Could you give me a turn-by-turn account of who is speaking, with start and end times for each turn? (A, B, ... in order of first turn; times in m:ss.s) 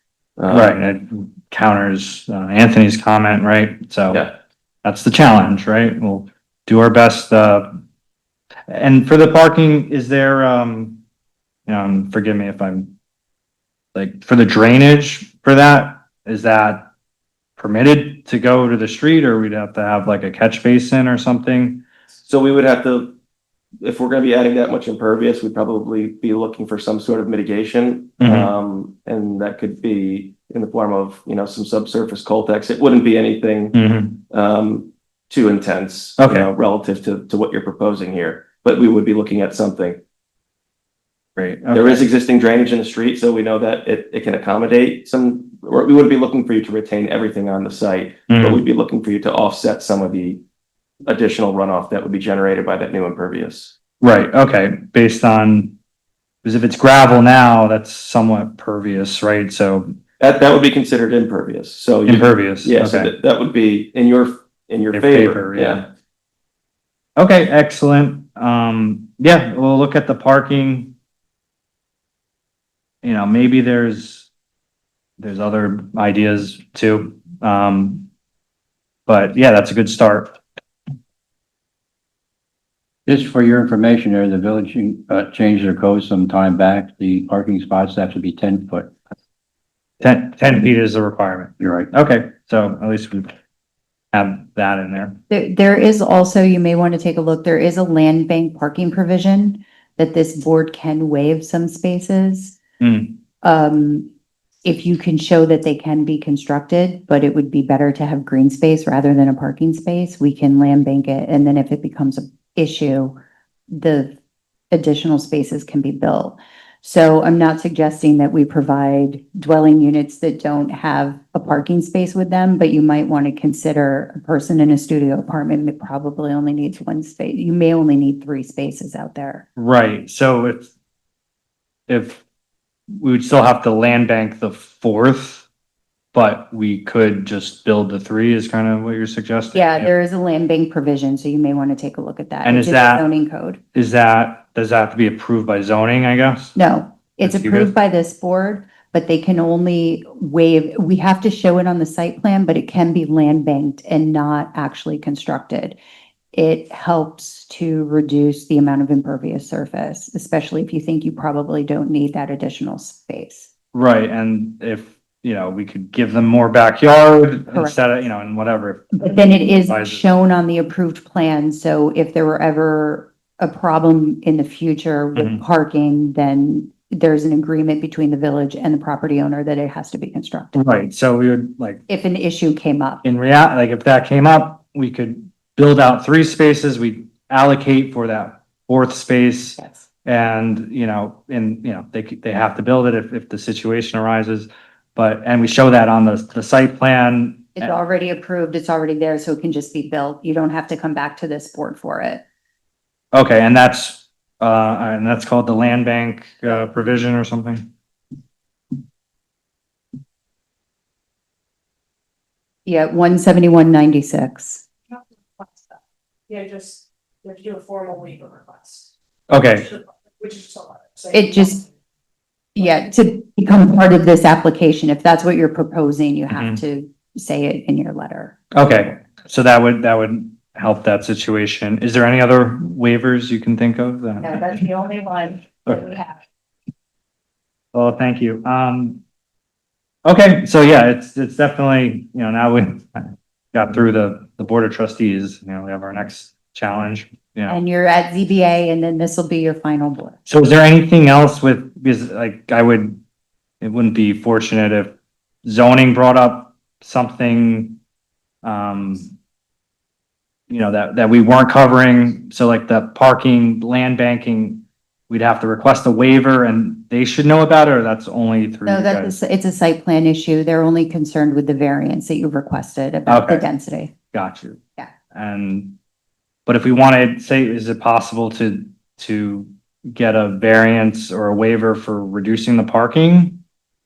0:00.4-0:00.8 A
0:00.5-0:04.3 B
0:04.8-0:07.8 B
0:08.7-0:11.0 B
0:11.7-0:12.9 B
0:14.0-0:16.9 B
0:17.6-0:21.8 B
0:22.2-0:23.2 A
0:23.8-0:33.8 A
0:28.2-0:28.5 B
0:33.7-0:34.2 B
0:34.3-0:40.0 A
0:36.2-0:36.5 B
0:41.4-0:42.0 B
0:41.7-0:50.4 A
0:48.3-0:48.6 B
0:51.0-0:53.8 A
0:54.0-0:55.8 B
0:56.4-1:00.0 B
1:00.2-1:05.9 A
1:02.1-1:03.1 B
1:04.9-1:05.9 B
1:07.2-1:11.0 B
1:13.0-1:14.3 B
1:15.2-1:18.1 B
1:19.1-1:20.4 B
1:23.1-1:28.9 C
1:30.0-1:33.3 B
1:31.6-1:31.9 C
1:34.1-1:35.2 B
1:35.3-1:42.6 D
1:42.8-1:43.2 B
1:43.4-1:44.1 D
1:44.6-1:54.2 D
1:54.7-2:09.4 D
2:09.6-2:10.7 B
2:11.9-2:12.2 B
2:12.9-2:15.5 B
2:16.1-2:19.9 B
2:19.5-2:23.6 D
2:22.4-2:23.0 B
2:23.7-2:26.6 B
2:26.6-2:35.8 D
2:27.2-2:27.7 B
2:36.3-2:43.5 D
2:43.7-2:50.0 B
2:49.0-3:00.6 D
2:55.2-2:55.4 B
3:00.6-3:01.8 B
3:01.9-3:03.0 D
3:03.0-3:17.7 B
3:09.6-3:09.9 D
3:17.6-3:22.2 D
3:23.1-3:27.7 B
3:26.5-3:26.9 D
3:32.7-3:34.6 D
3:36.3-3:38.9 E
3:39.3-3:39.7 B
3:40.2-3:41.6 E
3:41.1-3:41.6 D
3:42.6-3:48.4 D
3:46.3-3:46.6 B
3:48.5-3:54.6 B
3:54.2-3:56.2 D
3:57.7-3:59.0 B
4:00.0-4:07.6 B
4:07.5-4:10.2 D
4:10.3-4:13.0 B
4:13.6-4:17.8 B
4:18.4-4:19.2 B
4:20.5-4:29.1 B
4:28.7-4:34.0 D
4:33.1-4:33.5 B
4:34.1-4:35.8 B
4:36.5-4:43.4 B